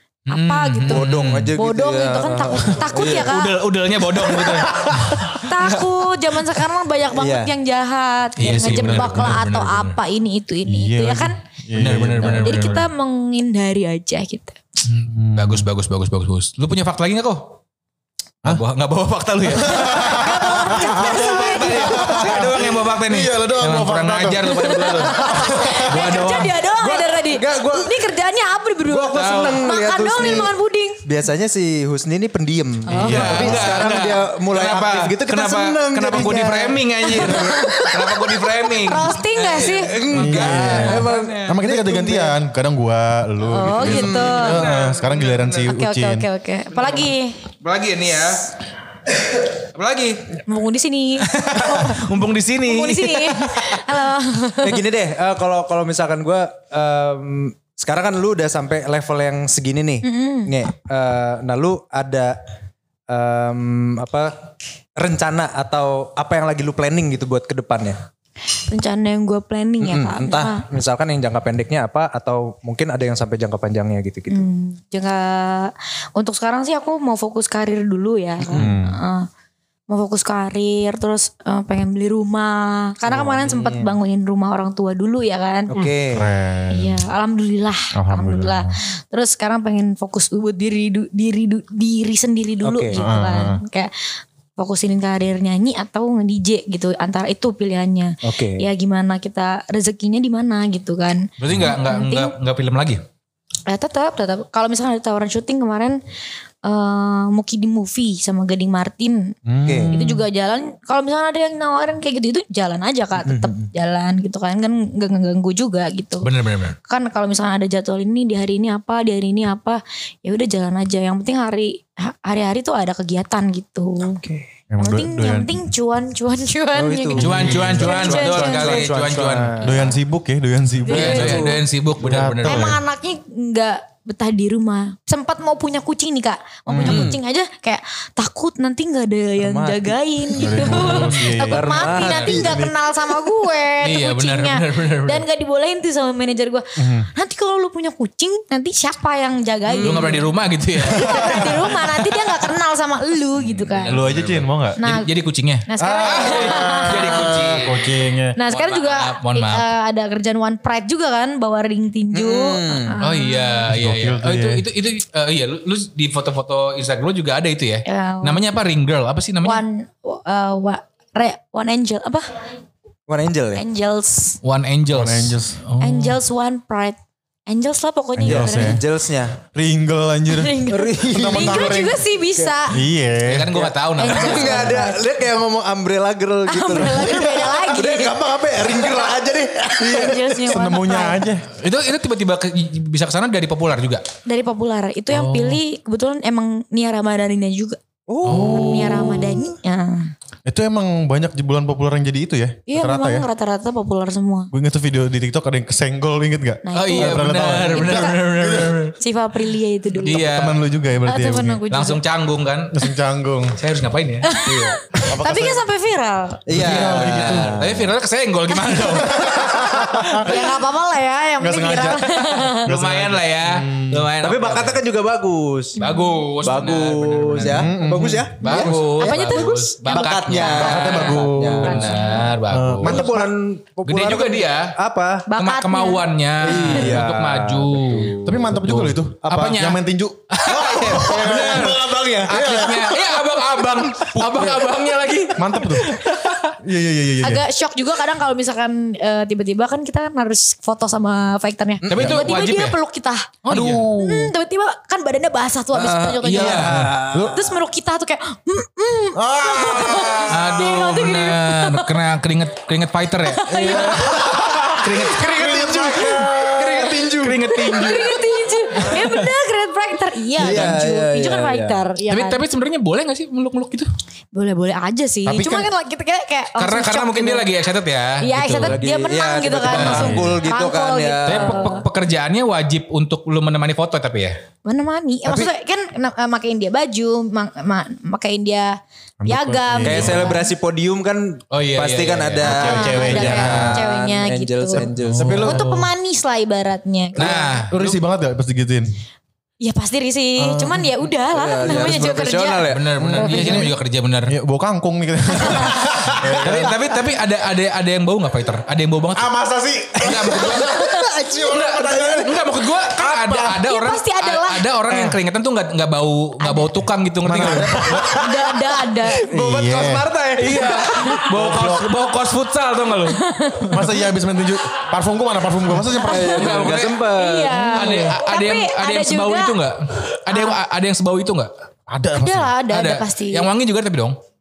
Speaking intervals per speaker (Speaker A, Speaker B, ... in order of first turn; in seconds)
Speaker A: 0.3-1.5, 2.8-6.0, 8.4-10.0, 11.8-12.8, 14.9-17.6, 18.4-26.6, 29.1-29.7, 33.0-41.6, 44.3-45.7, 47.6-48.5, 49.6-50.4, 51.3-53.8, 101.4-103.0, 116.2-116.8, 127.2-129.6, 130.9-132.7, 136.8-137.2, 141.8-142.5, 143.8-145.2, 149.8-152.3, 153.5-157.9, 158.5-159.7, 163.0-169.6, 174.4-176.2, 183.2-184.7, 191.6-194.0, 195.1-195.6, 198.2-199.0, 206.7-208.9, 210.0-210.6, 211.7-212.8, 213.6-214.3, 216.5-220.0, 222.5-224.8, 225.8-233.1, 233.8-234.7, 235.4-246.5, 251.9-252.8, 253.4-254.2, 256.2-256.9, 260.3-266.2, 266.9-268.2, 268.8-269.2, 270.4-270.7, 272.1-273.9, 276.6-278.8, 279.7-280.2, 281.2-284.4, 291.5-293.8, 295.1-295.8, 297.1-298.0, 302.7-304.3, 306.4-309.3, 310.0-310.9, 311.5-318.1, 320.4-323.2, 326.3-327.0, 327.7-331.5, 332.7-334.2
Speaker B: 0.3-3.6, 5.3-11.4, 12.4-14.6, 19.6-22.4, 24.5-31.0, 32.9-33.7, 36.2-38.1, 38.8-40.0, 43.5-44.6, 45.7-47.5, 50.5-52.0, 52.6-54.8, 60.0-60.5, 68.7-70.6, 74.3-79.3, 79.9-85.7, 86.7-93.9, 94.6-102.3, 103.7-106.0, 106.6-109.3, 109.9-116.3, 116.9-124.2, 124.8-128.9, 130.8-131.5, 132.4-150.2, 150.9-153.9, 154.8-155.1, 155.7-157.3, 158.3-163.7, 167.8-168.4, 169.4-172.4, 173.5-174.4, 175.8-178.8, 180.3-182.8, 184.0-185.0, 186.5-189.2, 189.7-191.2, 194.2-197.8, 198.3-200.1, 202.7-204.5, 206.6-208.1, 209.0-210.2, 211.1-212.0, 214.2-216.4, 218.6-222.6, 225.8-226.2, 229.0-230.7, 231.6-232.3, 235.3-236.0, 247.2-261.9, 263.2-264.4, 266.2-272.4, 274.3-277.5, 278.2-281.8, 284.6-288.8, 289.3-290.5, 292.4-294.9, 295.4-297.6, 299.6-303.7, 305.4-305.7, 313.5-314.7, 316.4-316.7, 318.1-319.2, 323.1-323.8, 325.9-329.6, 330.3-330.6, 332.1-333.5
Speaker C: 0.9-3.3, 7.1-7.5, 26.7-28.1, 28.8-30.5, 31.0-38.4, 39.5-42.3, 43.8-44.5, 54.6-62.4, 63.1-64.4, 65.0-68.0, 69.8-74.4, 78.4-78.7, 83.1-83.9, 85.7-86.3, 92.6-93.0, 98.2-98.7, 109.6-110.0, 113.2-113.7, 126.7-129.9, 130.9-131.6, 139.4-142.6, 149.7-150.3, 162.1-163.0, 173.1-173.6, 178.2-179.4, 180.7-181.8, 183.5-190.6, 198.1-199.5, 214.4-214.8, 216.5-217.9, 224.2-225.8, 226.4-232.0, 232.8-235.3, 236.4-238.5, 240.5-243.1, 244.1-244.7, 251.8-252.2, 253.5-254.1, 255.7-257.5, 263.4-267.5, 270.4-271.8, 278.6-281.8, 289.8-295.6, 301.3-303.1, 305.9-306.8, 310.0-312.3, 318.0-318.5, 319.0-321.5, 326.1-328.1
Speaker D: 4.3-5.3, 8.4-9.4, 10.7-12.8, 15.1-15.7, 19.6-26.0, 33.0-33.9, 40.1-46.2, 78.5-79.0, 86.1-87.0, 87.9-88.7, 92.9-93.6, 109.5-110.2, 124.7-125.6, 127.2-127.8, 129.6-131.4, 132.0-132.8, 136.7-137.1, 140.4-142.7, 146.8-147.1, 150.9-151.3, 153.9-154.8, 155.8-158.3, 163.7-164.6, 174.9-175.6, 178.2-178.8, 179.5-182.0, 182.7-183.5, 190.5-191.4, 198.3-198.8, 200.4-203.2, 204.5-208.8, 210.1-211.6, 212.7-213.6, 214.9-215.6, 216.5-217.6, 218.9-220.4, 221.4-224.1, 227.5-228.3, 230.5-231.9, 232.5-233.3, 238.2-243.0, 245.3-245.9, 246.6-247.4, 252.0-252.2, 257.1-257.4, 259.1-260.4, 264.2-266.8, 275.2-275.7, 279.7-280.4, 289.2-290.3, 292.5-293.8, 295.0-295.7, 297.7-298.9, 300.4-300.9, 303.0-303.7, 304.3-306.9, 309.1-313.6, 314.9-315.2, 317.2-318.2, 319.3-320.0, 321.3-321.9, 323.7-326.5, 331.9-332.5